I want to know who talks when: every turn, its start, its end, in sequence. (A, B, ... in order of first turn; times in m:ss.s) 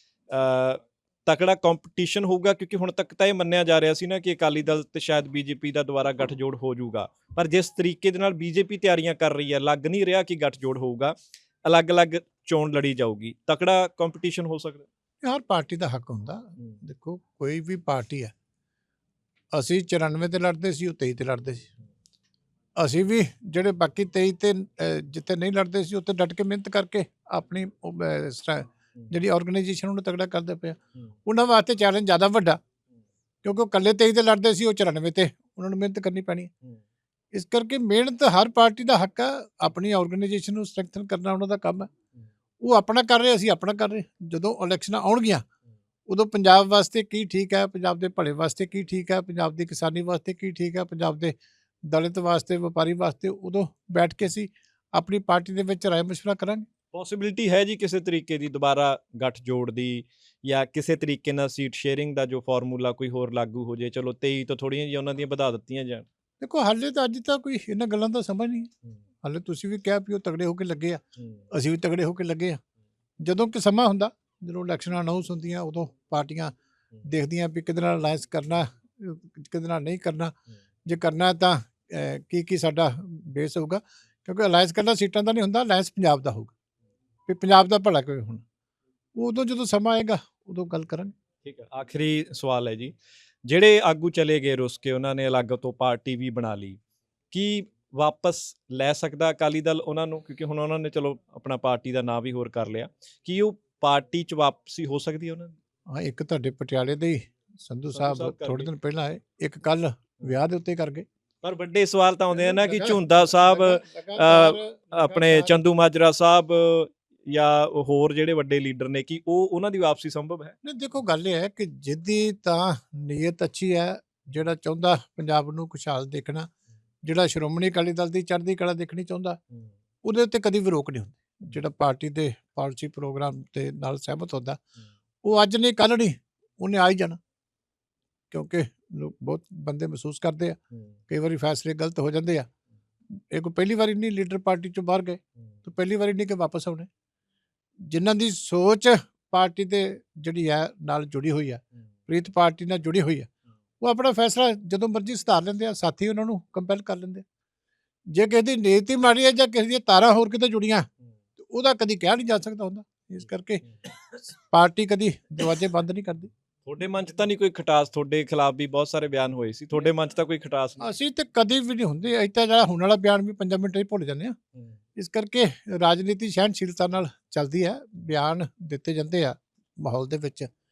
0:00.3-0:14.9 A
0:15.2-0:18.3 B
0:19.5-0:21.7 B
0:22.8-0:32.6 B
0:33.4-0:36.5 B
0:37.3-0:41.9 B
0:42.6-0:45.4 B
0:46.1-0:51.4 B
0:51.9-0:56.7 B
0:56.9-1:06.1 A
1:06.4-1:08.7 B
1:09.2-1:11.0 B
1:11.5-1:12.6 B
1:13.2-1:16.5 B
1:17.0-1:20.3 B
1:20.9-1:26.5 B
1:27.3-1:28.4 B
1:29.2-1:31.1 B
1:31.4-1:32.9 A
1:33.5-1:36.8 A
1:37.3-1:45.5 A
1:45.9-1:51.0 B
1:47.9-1:48.7 A
1:51.4-2:00.5 A
1:52.3-1:55.6 B
2:00.6-2:06.5 B
2:07.0-2:09.4 B
2:10.0-2:14.6 B
2:15.2-2:17.2 B
2:18.3-2:20.6 B
2:21.1-2:22.5 B
2:23.3-2:26.9 B
2:27.9-2:33.3 B
2:33.8-2:37.2 B
2:38.1-2:40.9 B
2:41.4-2:43.6 B
2:44.3-2:46.3 B
2:46.7-2:50.8 A
2:50.8-2:54.4 B
2:55.0-3:00.5 B